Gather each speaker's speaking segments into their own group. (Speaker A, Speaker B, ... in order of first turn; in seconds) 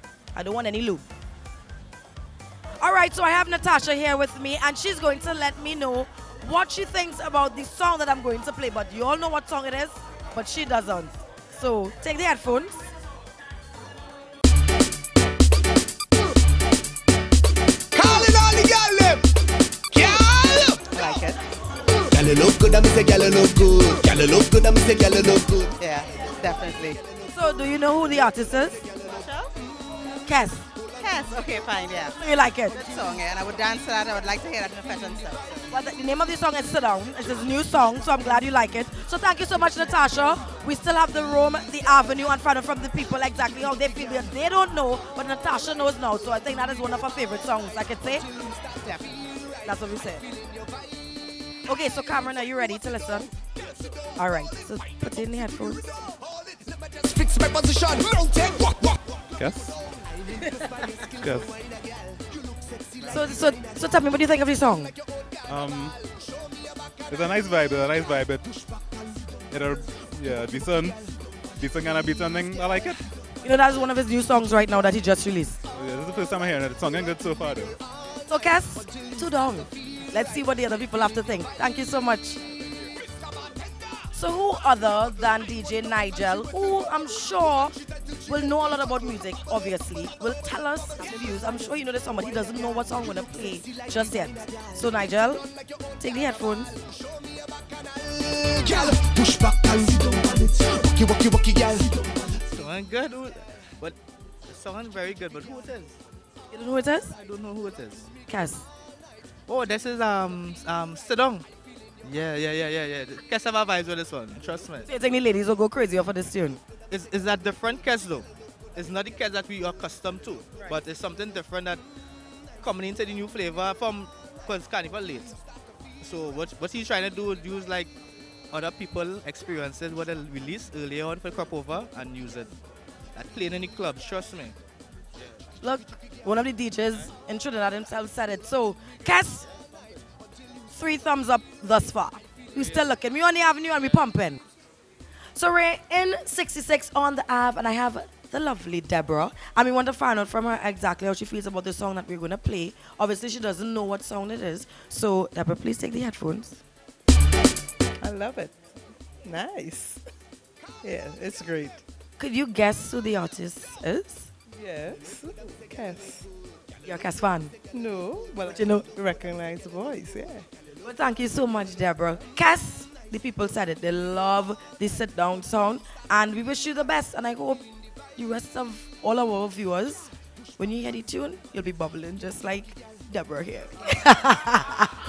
Speaker A: 0.3-1.0, 2.8-12.8, 27.3-28.8, 30.2-30.6, 32.2-32.9, 35.7-48.2, 49.6-50.3, 51.7-53.3, 54.2-55.9, 63.0-64.9, 73.4-75.6, 78.3-82.4, 84.1-95.4, 96.0-96.7, 106.5-107.1, 108.3-108.7, 114.8-116.6, 135.6-139.5, 140.7-144.4, 145.3-156.6, 162.2-164.3, 166.8-167.5, 168.4-168.9, 170.8-184.9
Speaker B: 17.9-19.3, 19.9-20.9, 22.1-25.8, 56.5-58.9, 60.3-63.6, 97.1-102.0
Speaker C: 20.9-21.4, 25.8-27.0, 29.0-29.5, 31.0-32.1, 32.8-35.6, 48.8-49.1
Speaker D: 59.4-59.7, 61.2-61.5, 65.5-65.9, 67.1-68.5, 69.5-71.1, 71.6-73.0, 75.7-77.8
Speaker E: 102.5-106.0, 107.1-108.1, 109.5-111.5, 112.0-114.9, 116.9-121.8, 122.6-125.4, 126.0-127.9, 128.5-132.5, 133.1-134.6
Speaker F: 158.0-158.6, 159.2-160.0, 160.8-161.8, 164.6-166.2, 167.7-170.4